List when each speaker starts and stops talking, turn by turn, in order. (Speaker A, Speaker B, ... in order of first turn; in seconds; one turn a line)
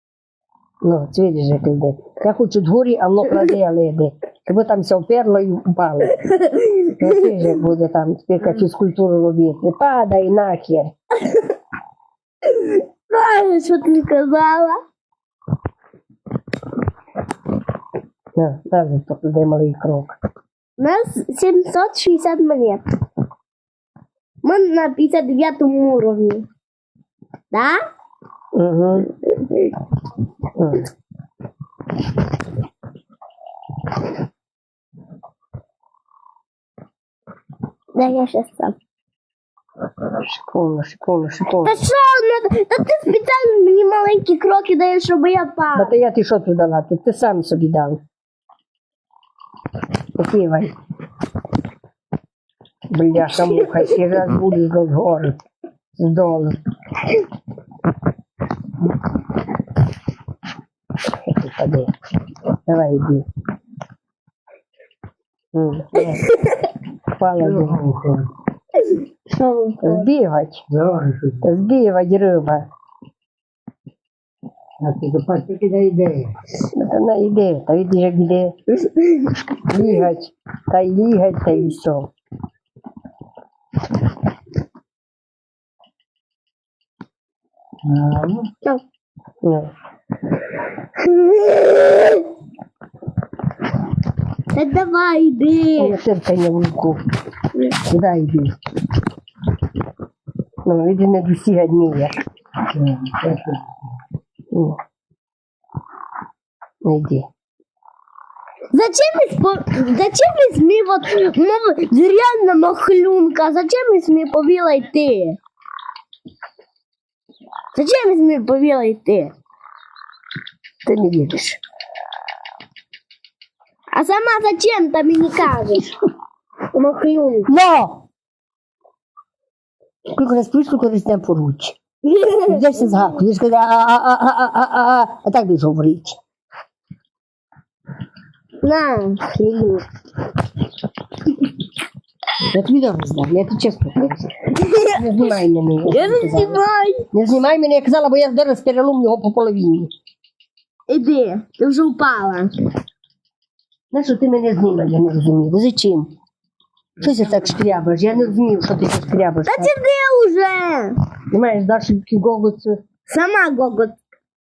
Speaker A: 0.8-6.2
Speaker B: 6.2-7.0
Speaker A: 6.9-10.9
Speaker B: 12.4-14.8
Speaker A: 18.4-20.2
Speaker B: 20.8-22.8
Speaker B: 24.4-26.4
Speaker B: 27.5-27.8
Speaker A: 28.5-29.1
Speaker B: 29.4-29.7
Speaker A: 30.6-30.9
Speaker B: 37.9-38.8
Speaker A: 40.1-41.8
Speaker B: 41.6-45.9
Speaker A: 45.7-48.0
Speaker A: 50.1-50.7
Speaker A: 52.9-55.4
Speaker A: 56.0-56.6
Speaker A: 61.0-61.9
Speaker A: 62.7-63.2
Speaker A: 65.5-66.3
Speaker B: 66.3-66.6
Speaker A: 67.2-67.8
Speaker C: 67.4-68.3
Speaker B: 68.9-70.1
Speaker A: 69.8-70.6
Speaker C: 70.7-71.4
Speaker A: 71.4-72.7
Speaker C: 74.8-76.4
Speaker A: 76.7-78.5
Speaker B: 78.8-79.5
Speaker A: 79.5-82.1
Speaker C: 87.8-88.5
Speaker A: 89.4-89.7
Speaker B: 91.0-92.2
Speaker B: 94.5-96.0
Speaker A: 95.8-97.0
Speaker A: 97.7-98.5
Speaker A: 100.6-102.2
Speaker C: 102.7-103.7
Speaker A: 104.5-104.8
Speaker A: 106.8-107.3
Speaker B: 108.7-115.4
Speaker B: 117.7-119.3
Speaker A: 120.8-121.6
Speaker B: 123.9-125.9
Speaker B: 126.7-127.5
Speaker A: 127.5-128.0
Speaker A: 130.1-131.8
Speaker B: 132.0-132.7
Speaker A: 132.5-136.2
Speaker B: 138.6-139.2
Speaker A: 139.3-139.8
Speaker A: 142.4-144.3
Speaker B: 144.5-145.0
Speaker A: 144.9-149.9
Speaker B: 145.9-147.1
Speaker B: 150.9-152.5
Speaker A: 153.9-156.1
Speaker A: 157.0-159.7
Speaker B: 159.4-161.0
Speaker A: 161.3-162.8
Speaker B: 163.1-164.0